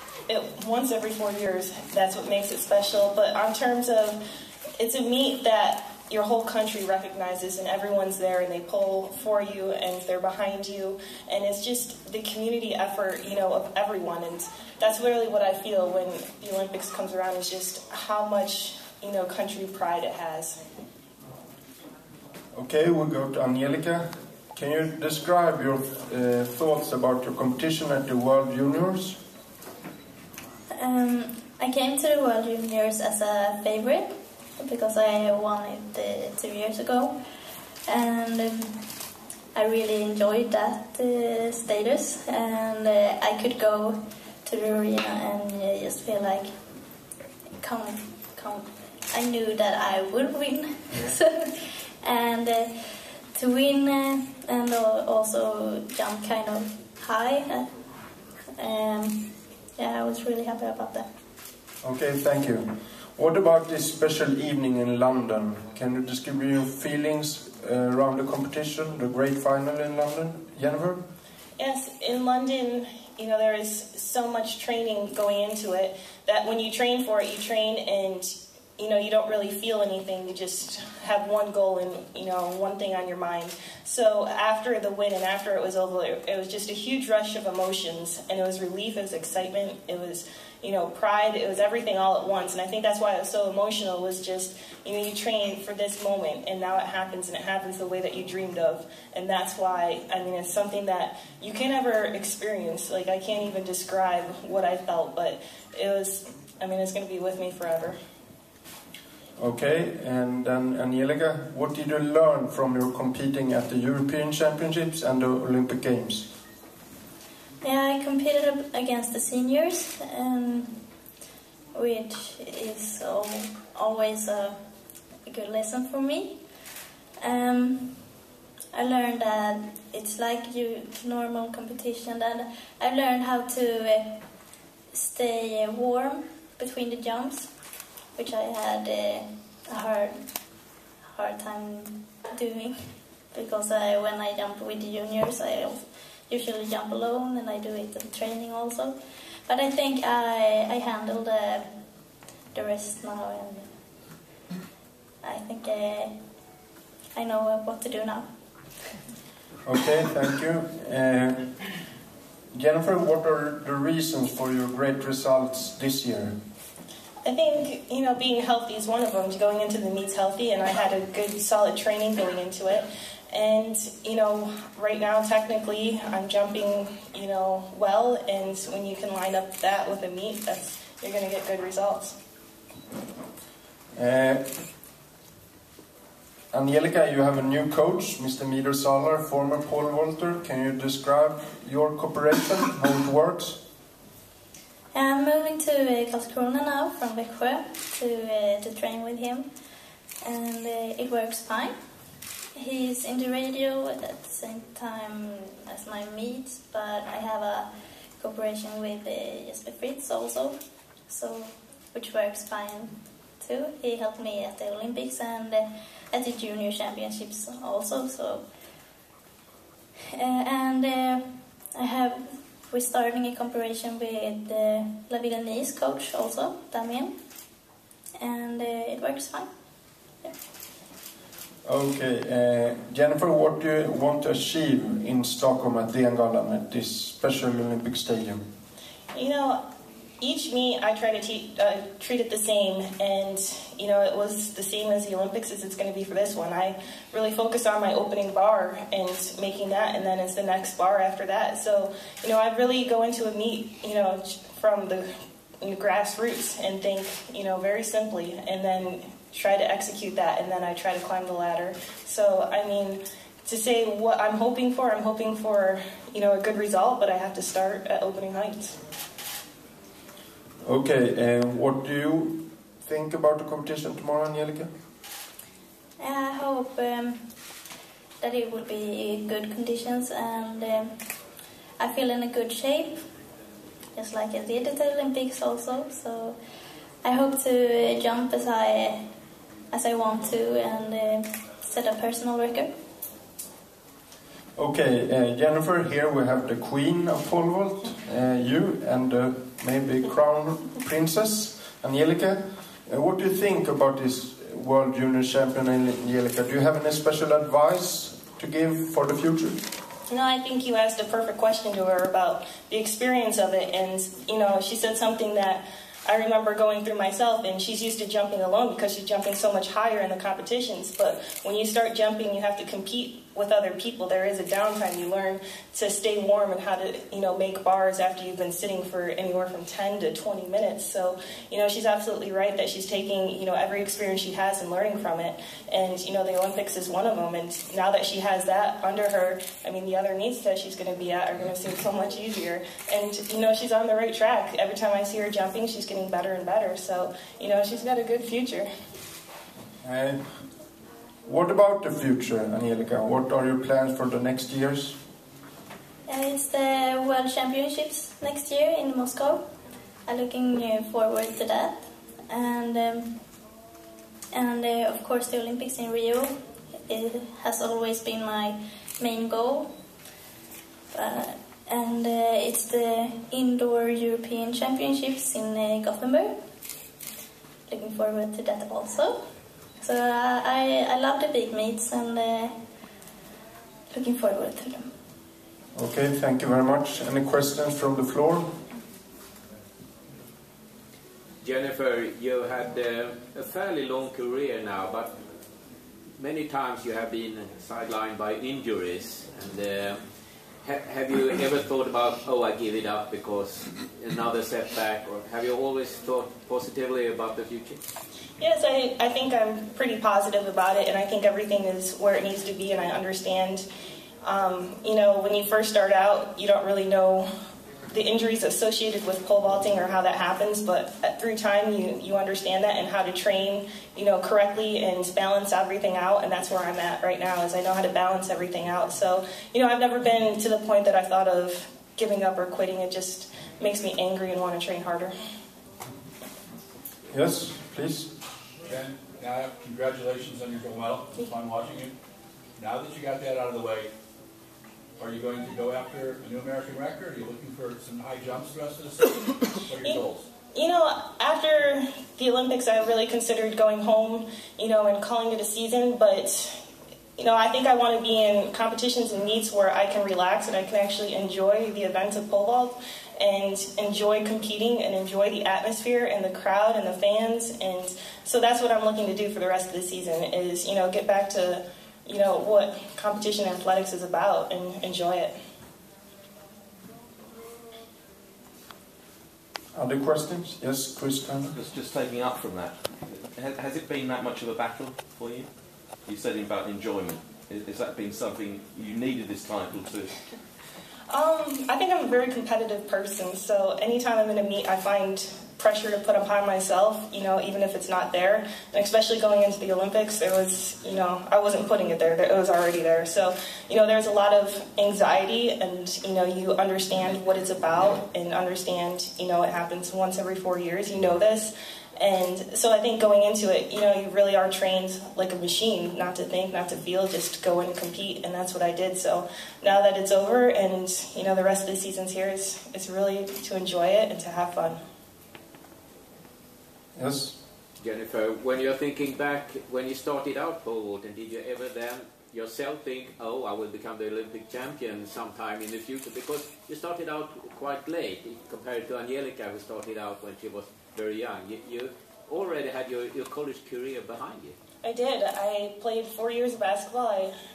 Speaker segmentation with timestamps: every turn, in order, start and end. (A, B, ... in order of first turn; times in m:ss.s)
0:00.3-0:04.2 A
0:04.8-0:20.6 A
0:22.6-0:29.2 B
0:30.8-0:34.1 C
0:34.6-0:37.1 C
0:37.9-0:38.7 C
0:39.6-0:46.5 C
0:47.6-0:57.7 C
0:58.6-1:01.1 C
1:01.8-1:11.0 B
1:11.6-1:48.0 A
1:49.4-1:56.3 B
1:57.6-2:00.8 C
2:01.7-2:04.5 C
2:05.3-2:06.4 C
2:07.2-2:08.1 C
2:08.7-2:14.1 C
2:14.9-2:17.5 C
2:18.2-2:20.2 C
2:21.1-2:22.7 C
2:23.3-2:29.0 C
2:29.5-2:31.7 C
2:32.5-2:33.7 C
2:35.2-2:36.1 C
2:37.1-2:38.3 C
2:39.7-2:41.6 B
2:42.5-2:46.4 B
2:47.2-3:02.2 A
3:04.0-3:04.4 B
3:06.5-3:13.6 B
3:14.9-3:19.5 C
3:20.2-3:21.7 C
3:22.6-3:27.7 C
3:28.2-3:30.6 C
3:31.1-3:38.4 C
3:40.2-3:41.2 C
3:41.7-3:47.1 C
3:48.2-3:49.5 C
3:51.6-3:58.5 B
3:59.1-3:59.6 A
4:00.2-4:15.1 A
4:15.6-4:28.8 A
4:30.6-4:34.7 B
4:36.0-4:37.2 C
4:38.2-4:40.9 C
4:41.8-4:43.0 C
4:44.0-4:46.4 C
4:47.0-4:49.0 C
4:49.7-4:52.7 C
4:54.6-5:09.6 B
5:10.1-5:48.7 A
5:49.8-5:50.4 B
5:51.2-5:55.0 B
5:56.1-5:59.4 C
6:00.1-6:03.1 C
6:04.3-6:06.3 C
6:06.9-6:09.7 C
6:10.9-6:16.3 C
6:17.7-6:19.2 C
6:19.8-6:22.5 C
6:23.9-6:24.9 C
6:25.8-6:28.6 B
6:31.4-6:35.1 D
6:36.2-6:40.0 D
6:40.6-6:47.8 D
6:48.4-6:53.7 A
6:54.2-6:57.3 A
6:57.9-7:15.1 A
7:17.1-7:18.1 B
7:18.6-7:21.9 E
7:22.6-7:23.9 E
7:25.0-7:30.3 E
7:30.5-7:36.6 A
7:37.2-7:55.3 A
7:59.7-8:01.6 B
8:01.5-8:05.5 F
8:06.0-8:10.1 F
8:11.1-8:44.8 A
8:47.0-8:47.4 B
8:47.8-9:04.6 D
9:04.8-9:07.3 A